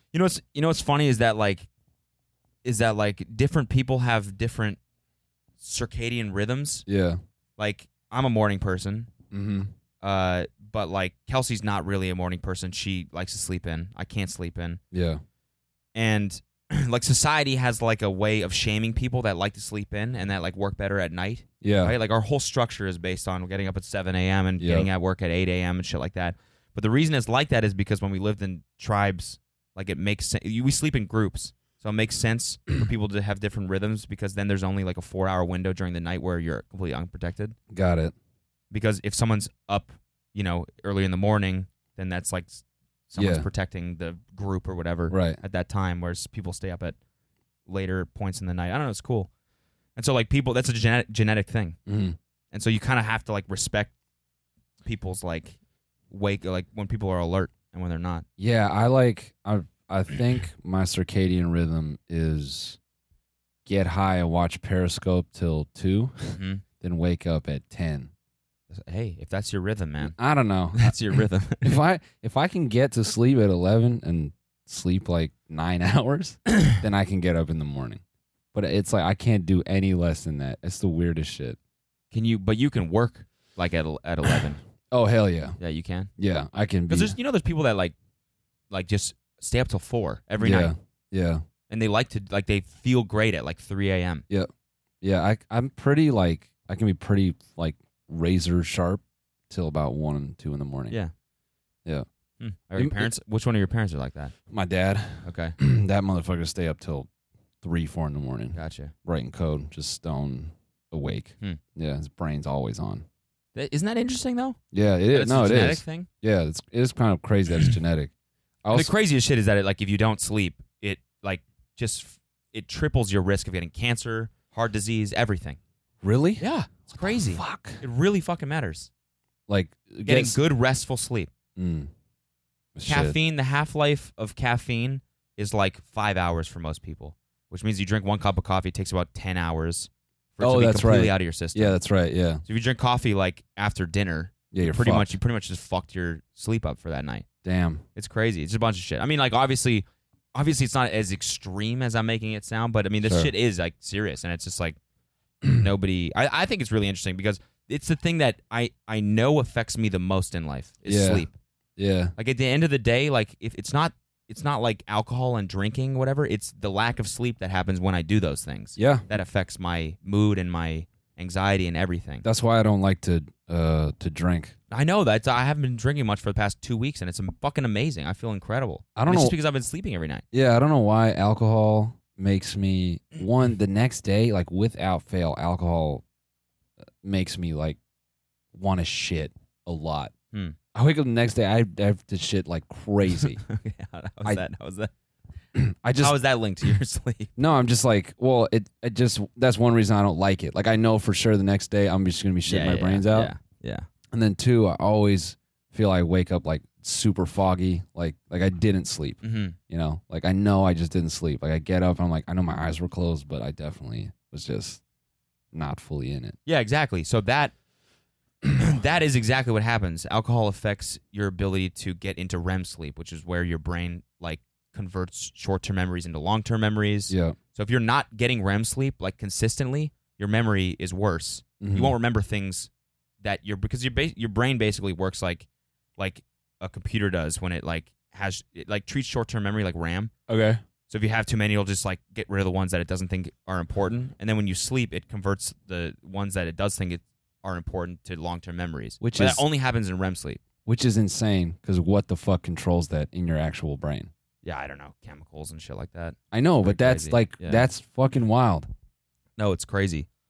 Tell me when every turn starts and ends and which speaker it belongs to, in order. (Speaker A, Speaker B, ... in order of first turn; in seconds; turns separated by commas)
Speaker A: 0.1-1.7, Speaker A: 2.6-4.8, Speaker A: 5.6-6.8, Speaker B: 6.9-7.2, Speaker A: 7.6-9.1, Speaker B: 9.3-9.7, Speaker A: 10.0-14.8, Speaker B: 14.9-15.2, Speaker A: 15.9-37.6, Speaker B: 21.6-21.9, Speaker B: 24.6-24.9, Speaker B: 37.7-38.1, Speaker A: 38.7-47.0, Speaker B: 43.2-43.5, Speaker B: 45.1-45.4, Speaker A: 47.7-49.3, Speaker A: 50.0-51.8, Speaker B: 51.9-52.2, Speaker A: 52.5-53.9, Speaker A: 54.8-55.6, Speaker A: 56.1-58.2, Speaker B: 58.4-62.8, Speaker B: 63.6-68.1, Speaker A: 66.3-66.6, Speaker A: 68.7-70.2, Speaker B: 70.0-71.0, Speaker A: 70.7-71.8, Speaker B: 71.6-78.0, Speaker B: 78.5-81.6, Speaker A: 82.1-84.6, Speaker B: 84.9-85.6, Speaker A: 85.6-86.1, Speaker B: 86.2-87.2, Speaker A: 86.9-88.0, Speaker A: 88.7-90.7, Speaker B: 90.4-91.4, Speaker A: 91.7-94.2, Speaker B: 95.0-101.0, Speaker A: 102.4-104.3, Speaker B: 102.8-103.1, Speaker B: 104.5-107.1, Speaker A: 105.2-105.6, Speaker B: 107.6-113.1, Speaker A: 108.5-108.9, Speaker A: 113.5-114.6, Speaker B: 114.7-118.1, Speaker A: 115.1-116.1, Speaker B: 118.6-118.9, Speaker A: 118.7-125.6, Speaker B: 126.0-127.8, Speaker A: 126.4-128.9, Speaker B: 129.5-130.4, Speaker A: 130.1-131.3, Speaker B: 131.6-131.9, Speaker B: 132.8-133.2, Speaker A: 132.9-141.8, Speaker B: 140.4-142.4, Speaker A: 142.5-147.3, Speaker B: 144.5-145.2, Speaker B: 147.4-147.8, Speaker A: 148.0-154.8, Speaker B: 153.0-153.3, Speaker A: 155.5-161.4, Speaker B: 160.9-161.3, Speaker B: 161.8-162.1, Speaker A: 162.2-172.2, Speaker B: 168.8-169.1, Speaker B: 172.2-174.6, Speaker A: 174.7-180.2, Speaker B: 179.0-179.3, Speaker B: 180.3-186.0, Speaker B: 187.0-187.8, Speaker B: 188.5-190.1, Speaker A: 190.3-190.6, Speaker B: 190.7-193.4, Speaker A: 193.4-194.9, Speaker B: 195.6-196.2, Speaker A: 196.0-197.3, Speaker B: 197.4-203.3, Speaker A: 202.5-203.9, Speaker B: 204.1-214.8, Speaker A: 209.2-209.6, Speaker B: 215.5-216.4, Speaker A: 216.5-217.5, Speaker A: 218.6-232.7, Speaker B: 227.1-227.4, Speaker B: 231.6-231.9, Speaker A: 233.2-235.5, Speaker A: 236.0-240.1, Speaker B: 240.3-240.6, Speaker A: 240.9-250.4, Speaker B: 249.0-249.4, Speaker B: 250.7-254.1, Speaker A: 254.4-257.6, Speaker B: 256.3-258.7, Speaker A: 259.4-260.1